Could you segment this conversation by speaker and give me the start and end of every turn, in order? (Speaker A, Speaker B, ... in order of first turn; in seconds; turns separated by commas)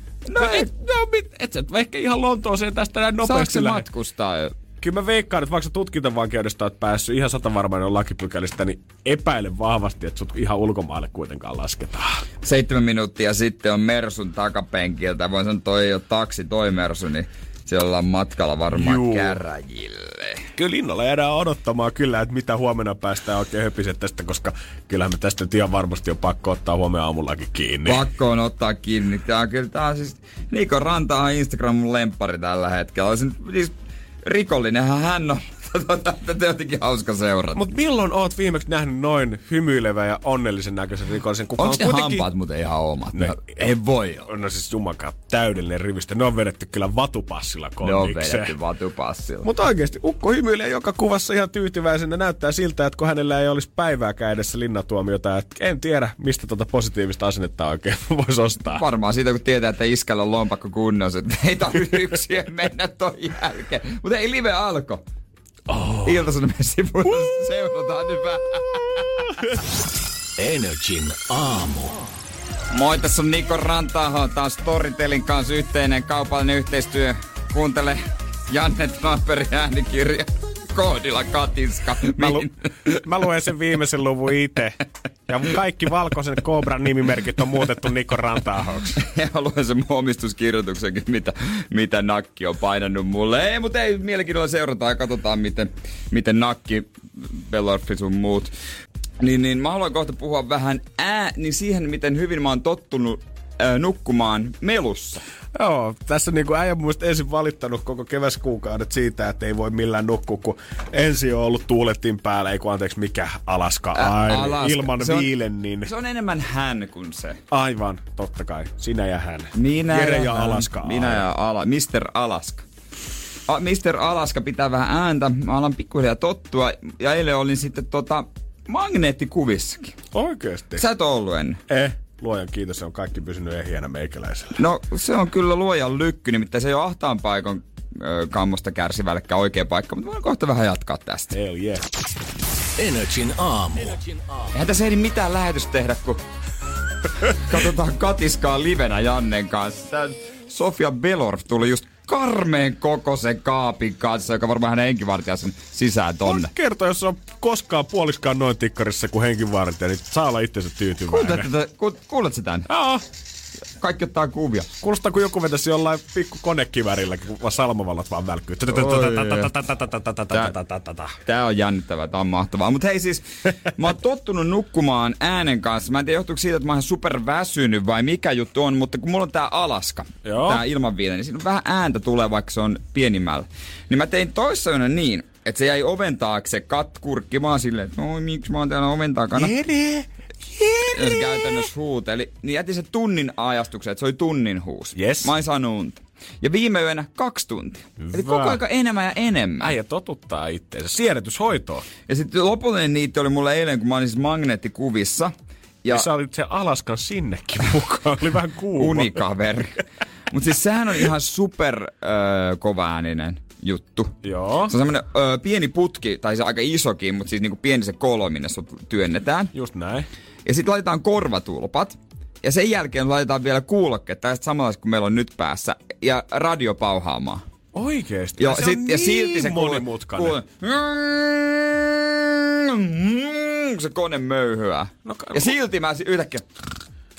Speaker A: 0.3-0.7, Speaker B: 0.3-3.9, Speaker A: 3.2-4.5, Speaker B: 4.8-12.2, Speaker A: 12.4-20.4, Speaker B: 18.7-19.4, Speaker B: 20.6-28.1, Speaker A: 27.9-33.7, Speaker A: 34.2-37.7, Speaker B: 37.5-42.3, Speaker A: 41.6-44.3, Speaker B: 43.1-43.7, Speaker B: 44.2-48.5, Speaker A: 47.8-49.5, Speaker B: 49.4-58.8, Speaker A: 58.7-65.0, Speaker B: 65.7-66.2, Speaker A: 66.0-69.3, Speaker C: 70.4-72.0, Speaker A: 72.7-82.9, Speaker B: 82.1-89.0, Speaker A: 89.0-98.5, Speaker A: 99.2-105.2, Speaker B: 105.5-115.9, Speaker A: 113.9-115.3, Speaker A: 115.8-117.4, Speaker B: 117.5-121.2, Speaker A: 119.5-122.6, Speaker A: 123.5-129.9, Speaker B: 130.1-130.8, Speaker A: 130.8-131.6, Speaker B: 131.7-134.6, Speaker A: 134.6-141.4, Speaker B: 141.3-141.9, Speaker C: 142.8-144.5, Speaker A: 144.5-146.2, Speaker A: 147.3-156.5, Speaker B: 156.2-161.5, Speaker A: 161.1-162.7, Speaker B: 162.7-163.0, Speaker A: 163.8-164.7, Speaker B: 164.8-171.2, Speaker A: 168.7-169.5, Speaker A: 171.2-189.5, Speaker B: 180.2-180.6, Speaker B: 189.3-191.7, Speaker A: 190.9-199.7, Speaker B: 194.9-195.3, Speaker B: 198.0-198.6, Speaker B: 199.6-201.9, Speaker A: 202.1-205.3, Speaker B: 205.9-209.2, Speaker A: 208.8-214.1, Speaker B: 214.2-214.7, Speaker A: 214.7-219.5, Speaker B: 219.5-220.1, Speaker A: 220.4-227.4, Speaker B: 227.7-230.4, Speaker A: 228.4-236.4, Speaker B: 235.0-235.5